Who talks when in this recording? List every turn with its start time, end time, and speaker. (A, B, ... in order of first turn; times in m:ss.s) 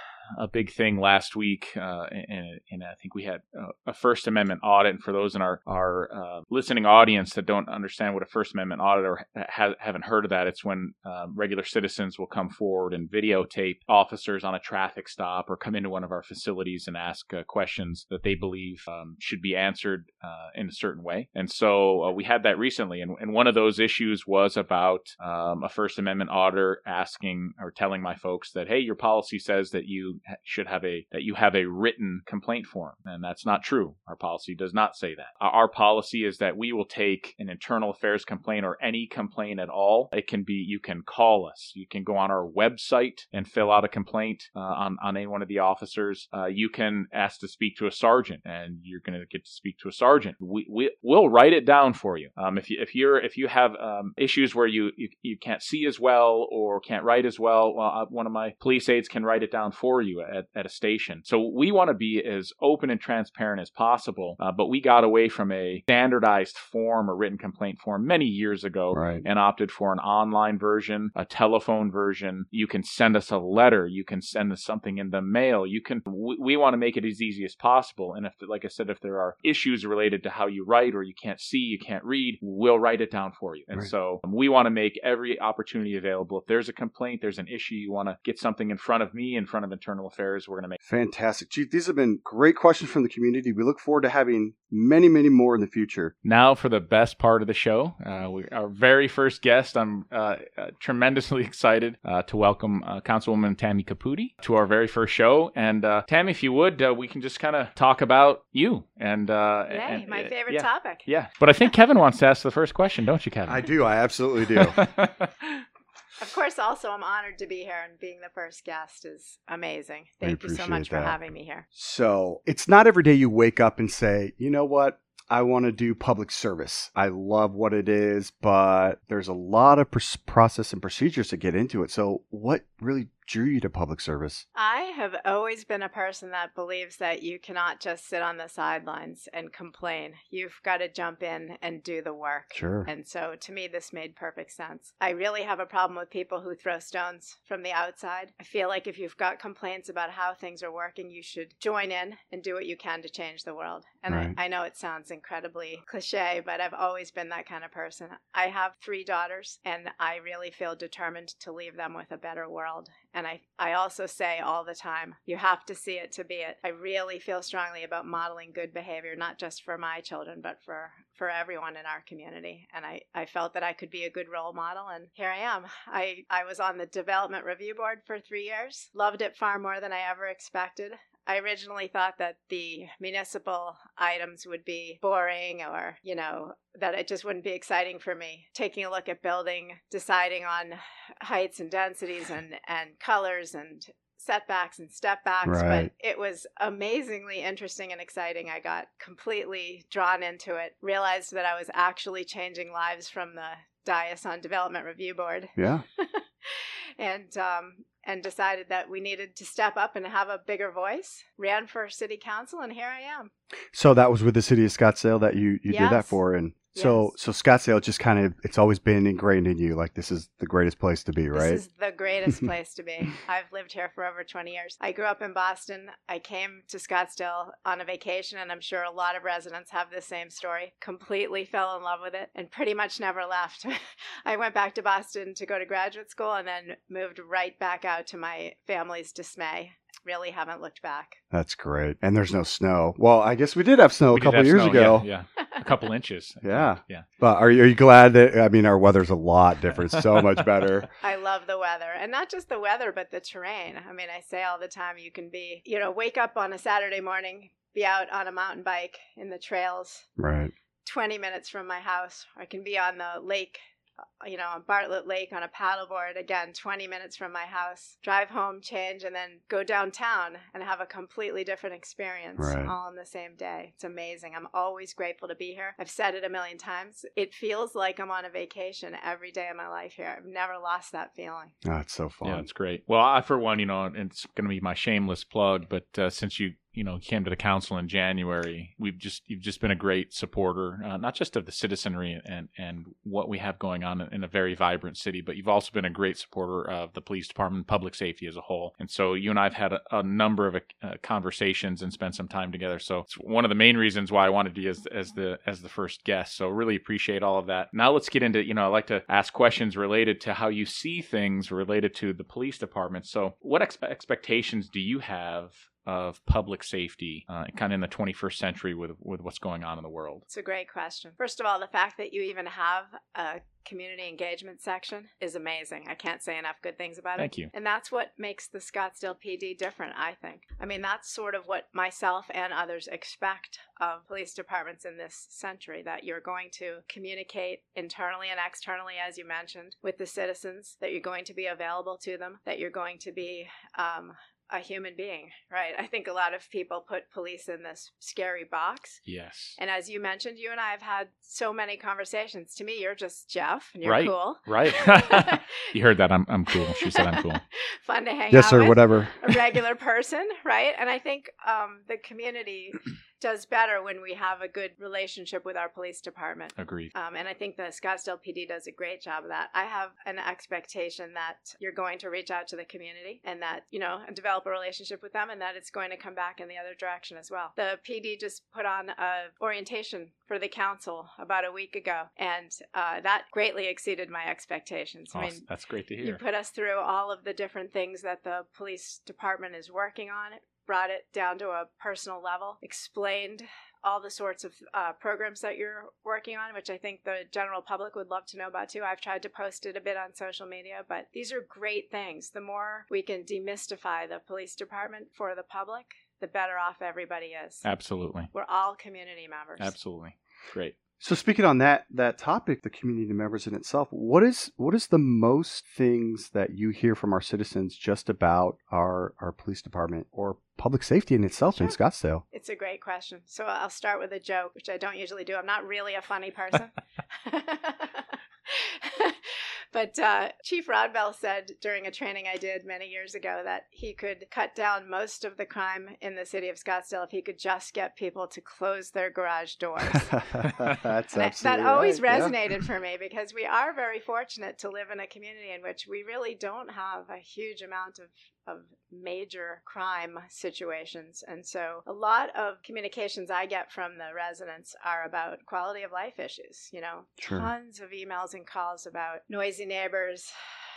0:00.3-1:30.8 A
1:08.9-1:09.2 B
1:30.8-1:36.1 B
1:36.2-1:53.7 A
1:49.7-1:51.0 C
1:53.5-1:54.8 B
1:54.6-1:55.6 A
1:56.2-2:01.6 C
2:00.2-2:01.2 B
2:01.7-2:14.4 B
2:14.5-3:33.3 C
2:22.5-2:22.9 B
2:34.1-2:34.4 B
3:15.4-3:15.9 B
3:25.6-3:25.8 B
3:33.7-3:41.6 B
3:35.7-3:36.2 C
3:36.7-3:37.1 C
3:41.3-4:01.2 C
4:01.3-4:05.0 B
4:04.1-4:07.0 A
4:06.4-4:10.9 B
4:10.1-4:10.6 A
4:11.0-4:20.1 C
4:20.2-4:20.5 B
4:20.8-4:23.6 C
4:24.2-4:41.5 C
4:32.4-4:32.7 B
4:41.6-4:42.5 B
4:42.2-5:20.2 A
5:20.3-5:49.0 C
5:27.2-5:27.5 A
5:49.0-5:49.6 A
5:49.6-5:55.6 C
5:53.8-5:57.4 A
5:56.5-6:25.4 C
5:58.3-5:59.4 B
6:06.6-6:06.9 A
6:25.1-6:26.2 A
6:26.0-6:47.6 C
6:47.6-6:48.3 A
6:48.3-6:49.7 C
6:49.6-6:50.7 A
6:51.0-7:02.2 B
7:02.3-7:20.5 C
7:20.1-7:22.4 B
7:21.2-7:40.3 C
7:37.2-7:37.5 B